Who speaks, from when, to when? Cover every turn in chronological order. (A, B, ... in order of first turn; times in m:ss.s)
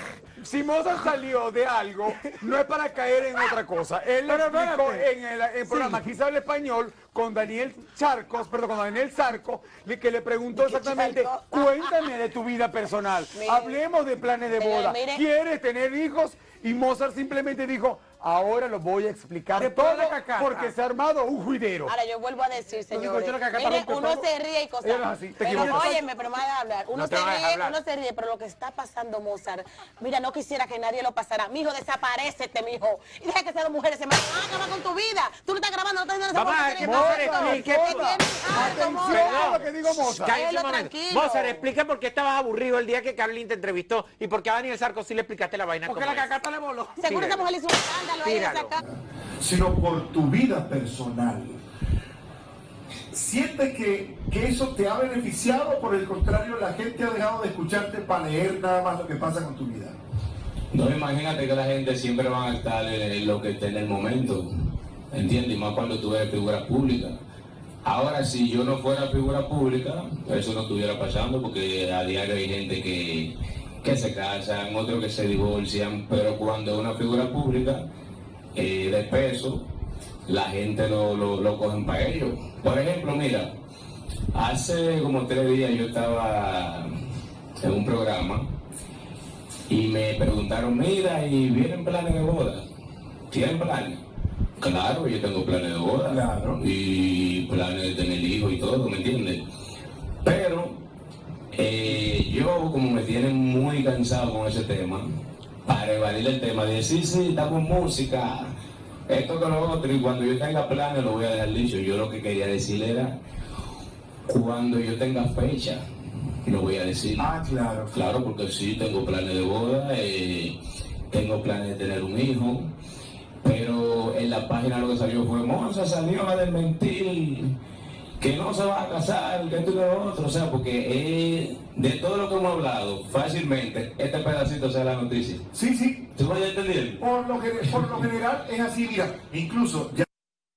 0:00.4-0:22.0 A
0:04.2-0:05.1 B
0:05.6-0:06.0 B
0:10.5-0:12.1 C
0:13.3-0:13.8 C
0:14.5-0:15.2 C
0:19.6-0:20.7 B
0:21.9-0:39.6 C
0:22.9-0:23.8 B
0:23.8-0:24.2 A
0:24.8-0:26.0 A
0:25.6-0:25.9 B
0:26.9-0:27.8 D
0:36.3-0:38.2 D
0:36.8-0:40.4 A
0:39.1-0:46.3 D
0:40.3-0:41.6 C
0:45.9-0:47.2 B
0:47.0-0:48.8 C
0:47.1-0:48.8 D
0:48.9-0:51.6 E
0:53.1-1:00.0 E
1:00.7-1:04.5 F
1:05.1-1:07.2 F
1:07.8-1:17.9 F
1:18.6-1:19.7 F
1:20.3-1:23.5 F
1:24.3-1:26.9 F
1:27.6-1:28.5 F
1:29.7-1:32.6 F
1:33.3-1:34.0 F
1:34.6-1:39.4 F
1:36.1-1:36.6 E
1:40.2-1:40.8 F
1:41.5-1:45.1 F
1:45.6-1:48.5 F
1:49.1-1:53.2 F
1:54.3-1:55.8 F
1:56.4-1:57.3 F
1:57.2-1:58.0 E
1:57.9-2:00.6 F
2:01.1-2:02.7 F
2:03.4-2:07.5 F
2:08.2-2:15.4 F
2:15.5-2:16.1 E
2:16.2-2:17.0 F
2:17.0-2:20.0 E
2:17.6-2:18.1 F